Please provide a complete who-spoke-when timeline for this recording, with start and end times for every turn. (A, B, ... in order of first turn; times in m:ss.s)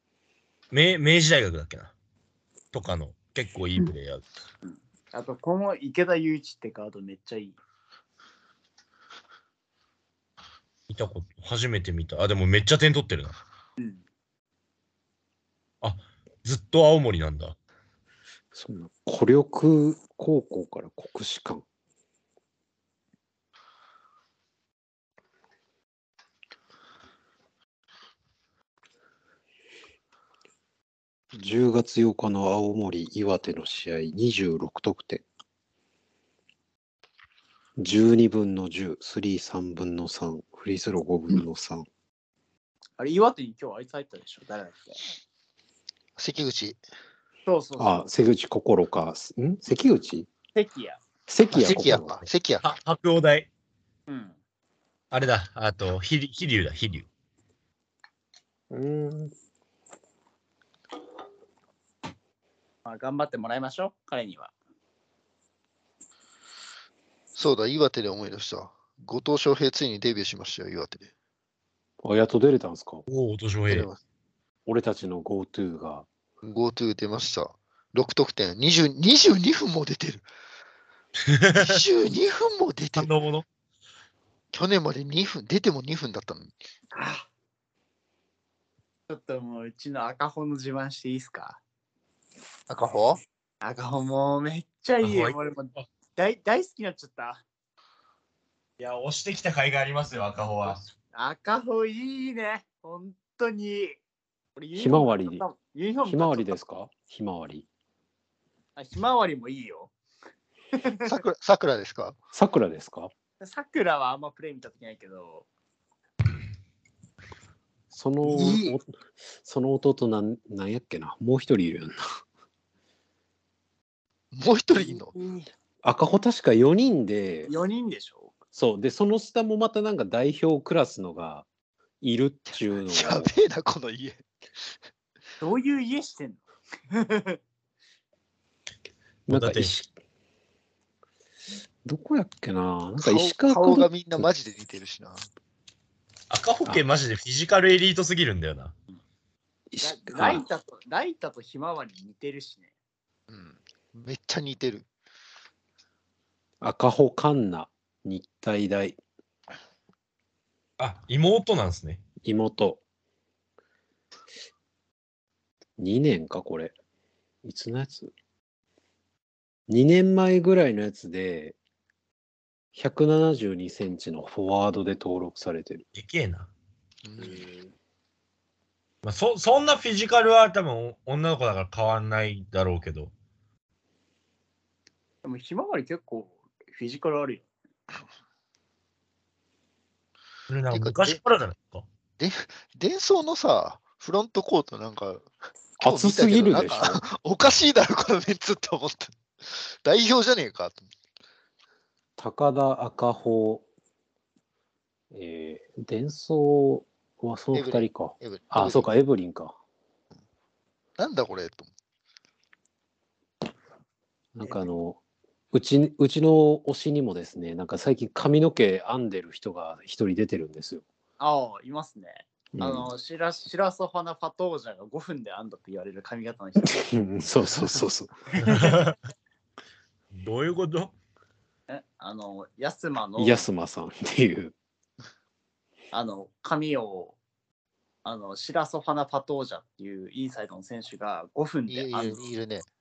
0:00.7-0:01.9 A
0:02.7-0:04.3 A
0:04.6-0:07.6 B
0:10.9-0:13.4 A
0:15.8-0:17.6 A
0:18.5-0:21.6 C
0:31.4-0:35.2 C
0:37.8-0:41.9 C
0:43.0-0:45.0 B
0:46.2-0:46.8 D
0:47.4-0:48.0 B
0:47.8-0:50.3 C
0:50.6-0:51.0 B
0:51.3-0:52.2 C
0:51.5-0:52.7 D
0:52.6-0:53.5 A
0:54.1-0:54.4 B
0:55.1-0:57.1 A
0:58.7-0:59.3 C
1:02.8-1:04.5 B
1:07.4-1:11.1 D
1:12.0-1:13.0 C
1:13.1-1:13.9 A
1:13.7-1:14.0 D
1:14.7-1:16.1 C
1:16.4-1:20.2 D
1:21.3-1:21.8 A
1:21.6-1:23.1 D
1:23.0-1:23.4 A
1:24.5-1:26.5 D
1:26.9-1:27.3 B
1:29.1-1:31.6 B
1:32.7-1:33.2 D
1:33.6-1:37.4 B
1:35.0-1:35.8 A
1:38.8-1:40.8 A
1:41.1-1:44.0 B
1:44.6-1:46.6 B
1:44.7-1:45.4 C
1:46.0-1:47.7 C
1:48.8-1:49.9 B
1:50.8-1:51.2 B
1:51.0-1:52.2 D
1:52.3-1:53.1 C
1:53.4-1:55.4 B
1:57.9-1:58.9 C
1:58.2-1:58.8 B
1:59.4-2:02.0 C
2:04.3-2:05.1 D
2:05.1-2:05.4 B
2:05.8-2:07.5 C
2:07.5-2:08.3 B
2:08.5-2:11.5 C
2:12.0-2:13.3 C
2:12.5-2:14.2 D
2:15.4-2:17.4 B
2:19.3-2:19.7 A
2:19.3-2:19.9 C
2:21.8-2:24.3 C
2:23.0-2:25.3 D
2:26.3-2:28.7 A
2:29.7-2:30.4 C
2:29.8-2:32.7 B
2:33.3-2:34.9 D
2:36.6-2:39.0 C
2:40.8-2:42.0 A
2:42.2-2:42.8 C
2:45.8-2:46.7 C
2:47.4-2:48.1 C
2:49.7-2:51.6 C
2:52.7-2:55.8 C
2:56.0-2:56.5 A
2:57.0-2:57.4 D
2:57.2-2:57.7 B
2:59.0-3:03.1 A
3:05.2-3:07.4 B
3:10.5-3:11.9 A
3:10.7-3:11.2 D
3:12.2-3:15.2 D
3:15.8-3:20.9 D
3:15.8-3:17.0 C
3:22.2-3:23.7 C
3:25.1-3:29.6 C
3:27.5-3:28.9 D
3:31.0-3:31.7 D
3:34.4-3:35.0 C
3:34.4-3:34.7 B
3:35.5-3:40.8 C
3:41.2-3:46.9 B
3:42.5-3:42.9 C
3:46.6-3:48.2 C
3:48.4-3:48.8 B
3:48.4-3:49.0 A
3:50.1-3:51.0 A
3:51.7-3:53.5 B
3:53.2-3:54.5 C
3:55.9-3:57.2 B
3:58.0-4:02.2 B
4:01.7-4:02.7 D